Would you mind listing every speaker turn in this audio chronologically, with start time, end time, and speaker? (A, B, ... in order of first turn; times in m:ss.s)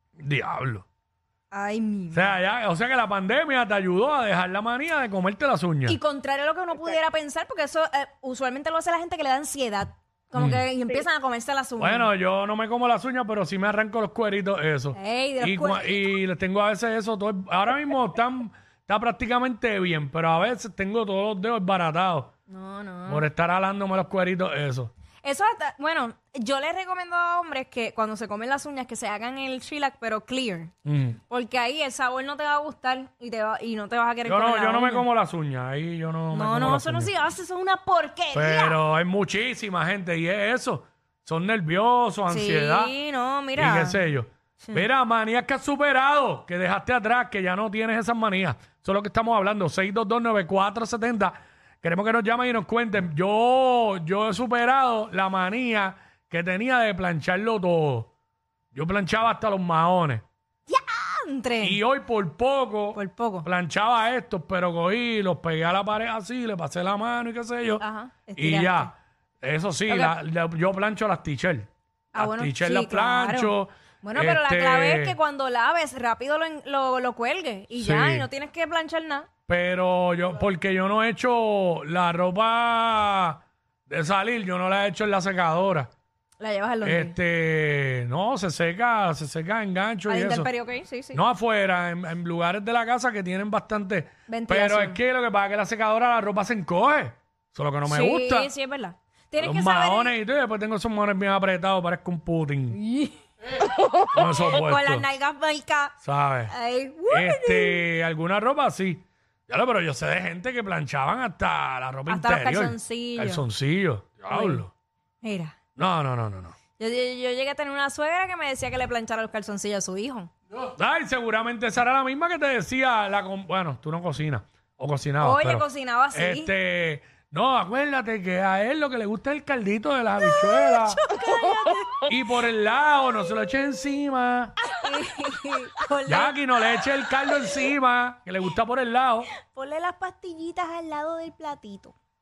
0:00.2-0:00.8 A
0:01.5-0:02.4 B
0:02.1-0:06.0 A
0:05.9-0:12.1 B
0:10.3-0:10.6 A
0:11.8-0:22.3 A
0:14.9-0:16.1 B
0:22.5-0:23.3 B
0:23.1-0:24.9 A
0:25.2-0:30.7 B
0:30.8-0:31.2 A
0:31.3-0:35.0 B
0:34.2-0:37.1 A
0:36.3-0:38.8 B
0:38.3-0:42.9 A
0:42.3-0:44.0 B
0:43.6-0:58.1 A
0:44.6-0:44.8 B
0:58.7-1:00.2 A
1:00.7-1:01.8 B
1:01.6-1:07.8 A
1:02.9-1:03.4 B
1:07.8-1:08.9 B
1:08.4-1:15.2 A
1:09.9-1:10.1 B
1:12.1-1:19.3 B
1:17.7-1:18.3 A
1:19.5-1:25.9 A
1:26.4-1:27.2 B
1:26.8-1:30.5 A
1:30.1-1:31.2 B
1:31.1-1:38.5 A
1:34.3-1:35.0 B
1:37.9-1:40.2 B
1:39.4-1:42.8 A
1:42.7-1:46.0 B
1:44.1-1:45.1 A
1:46.0-1:46.5 A
1:46.5-1:47.8 B
1:47.1-1:54.7 A
1:52.1-1:53.4 B
1:54.3-1:54.6 B
1:55.2-1:55.6 B
1:55.8-1:56.6 A
1:56.8-2:00.3 B
2:00.8-2:11.0 A
2:05.2-2:06.5 B
2:10.2-2:12.1 B
2:12.1-2:14.6 A
2:14.7-2:16.4 B
2:16.0-2:19.3 A
2:19.5-2:21.9 B